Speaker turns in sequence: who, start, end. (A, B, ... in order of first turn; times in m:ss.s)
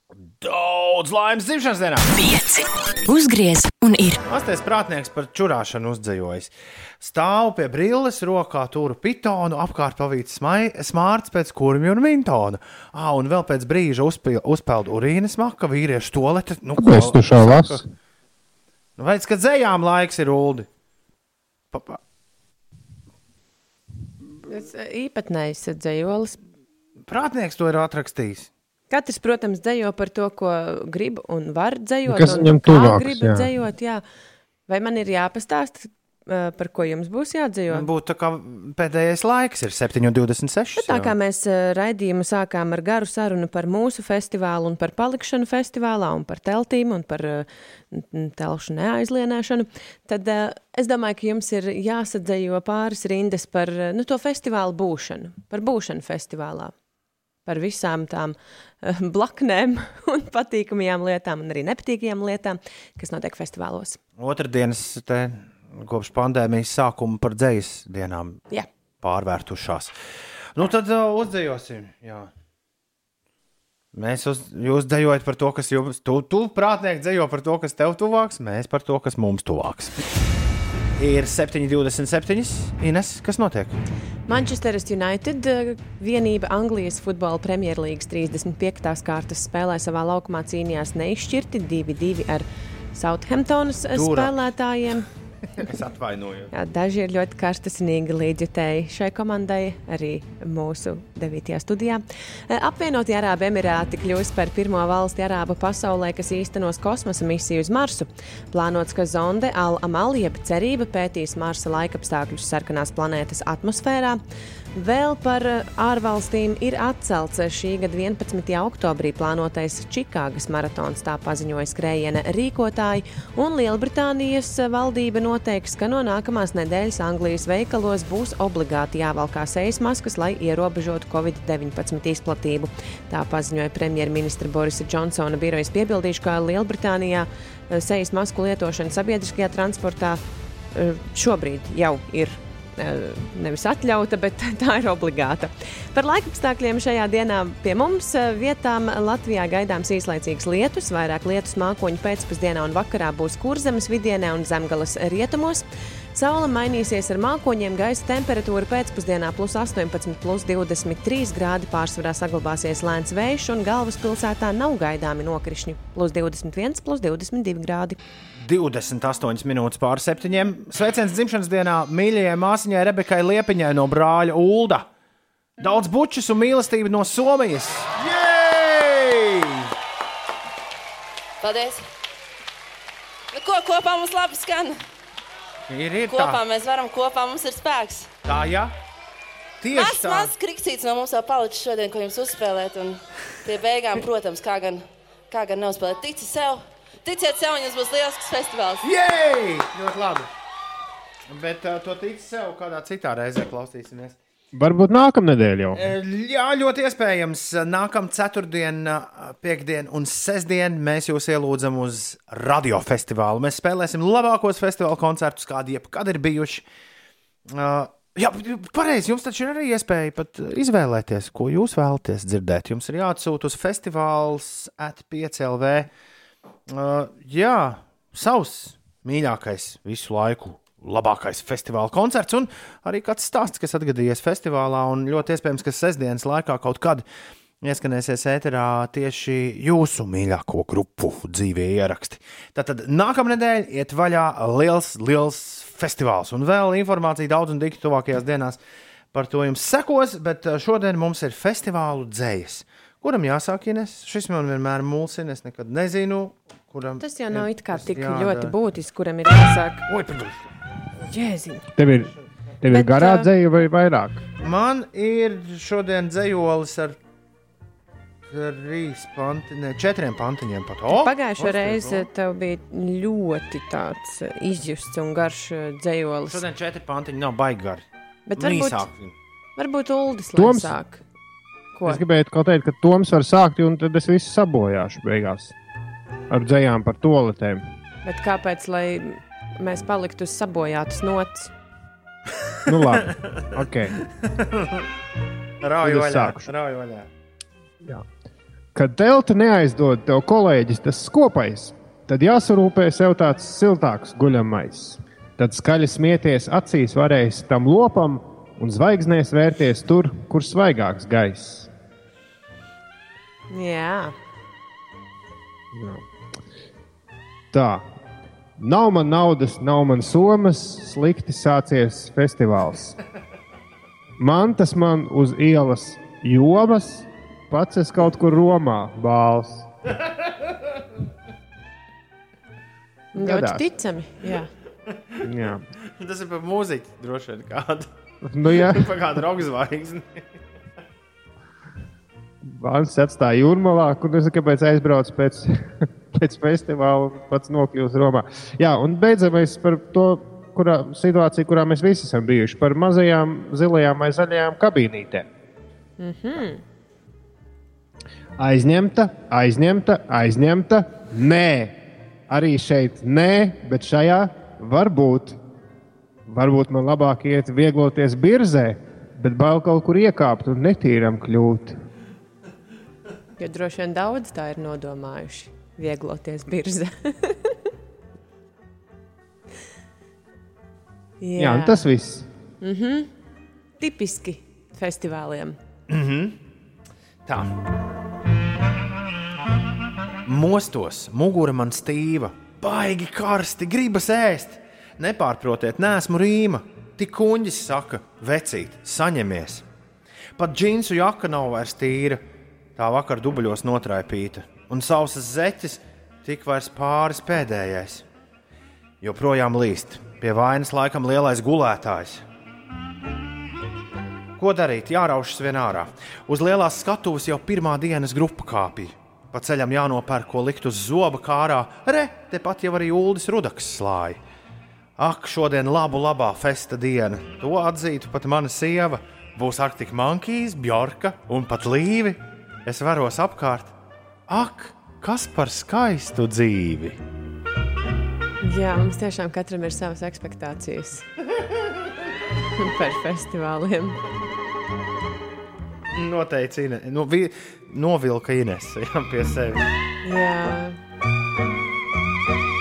0:00.4-0:02.1 A
0:02.1-0:04.2 B
0:04.2-0:17.8 A
0:16.8-0:17.8 C
0:19.0-0:20.7 A
0:21.7-0:22.0 A
0:24.5-0:26.4 D
0:27.1-0:28.5 A
0:28.9-0:34.0 D
0:32.0-0:33.5 C
0:34.7-0:37.9 D
0:37.7-0:41.1 A
0:40.8-0:56.7 D
0:57.4-1:04.0 D
1:04.2-1:08.4 A
1:09.0-1:09.9 A
1:10.6-1:12.3 A
1:13.9-1:20.0 A
1:21.0-1:23.8 A
1:24.3-1:35.0 D
1:33.9-1:34.3 A
1:35.6-1:36.5 A
1:36.5-1:54.2 D
1:54.7-2:20.2 D
2:20.7-2:48.0 D
2:48.4-2:54.9 A
2:55.6-2:59.7 A
3:01.4-3:01.8 E
3:03.3-3:04.8 E
3:05.7-3:06.4 A
3:06.1-3:08.1 E
3:08.2-3:08.7 A
3:09.6-3:10.3 A
3:09.7-3:18.8 E
3:18.8-3:20.3 A
3:21.3-3:24.2 A
3:24.5-3:25.9 C
3:25.7-3:36.6 A
3:37.5-3:45.9 A
3:46.7-3:57.0 A
3:57.6-4:08.6 A
4:09.1-4:18.5 A
4:17.0-4:19.8 D
4:19.9-4:20.4 A
4:21.0-4:21.7 D
4:21.7-4:24.2 C
4:22.6-4:23.3 D
4:24.4-4:27.0 A
4:28.3-4:32.1 A
4:30.9-4:36.4 D
4:36.3-4:37.8 A
4:38.3-4:38.9 D
4:38.4-4:39.1 A
4:39.6-4:41.0 D
4:40.4-4:40.7 C
4:41.7-4:42.0 D
4:41.8-4:45.5 C
4:46.3-4:47.6 C
4:48.0-4:51.5 D
4:52.7-4:53.9 C
4:53.0-4:53.4 A
4:54.0-4:54.8 A
4:55.6-4:57.1 A
4:55.8-4:56.5 C
4:58.7-5:11.7 C
5:13.5-5:14.1 D
5:15.7-5:16.0 C
5:17.5-5:17.8 C
5:18.6-5:23.0 C
5:24.2-5:29.7 C
5:33.1-5:33.6 C
5:33.1-5:34.5 D
5:35.2-5:35.6 C
5:36.0-5:37.9 A
5:38.2-5:38.9 C
5:38.5-5:40.3 A
5:42.4-5:55.3 C
5:56.0-5:56.6 D
5:58.4-6:05.4 C
6:06.3-6:11.8 C
6:13.4-6:17.6 D
6:21.2-6:21.9 D
6:21.4-6:22.3 C
6:22.6-6:23.1 D
6:23.8-6:25.6 D
6:25.9-6:26.4 A
6:27.2-6:27.6 A
6:30.2-6:39.6 A
6:40.4-6:42.2 A
6:42.8-6:48.0 A
6:49.0-6:52.2 A
6:54.4-7:04.2 A
7:05.0-7:13.7 A
7:14.3-7:17.0 A
7:18.4-7:21.0 D
7:22.6-7:24.0 D
7:25.9-7:29.6 A
7:30.0-7:30.8 D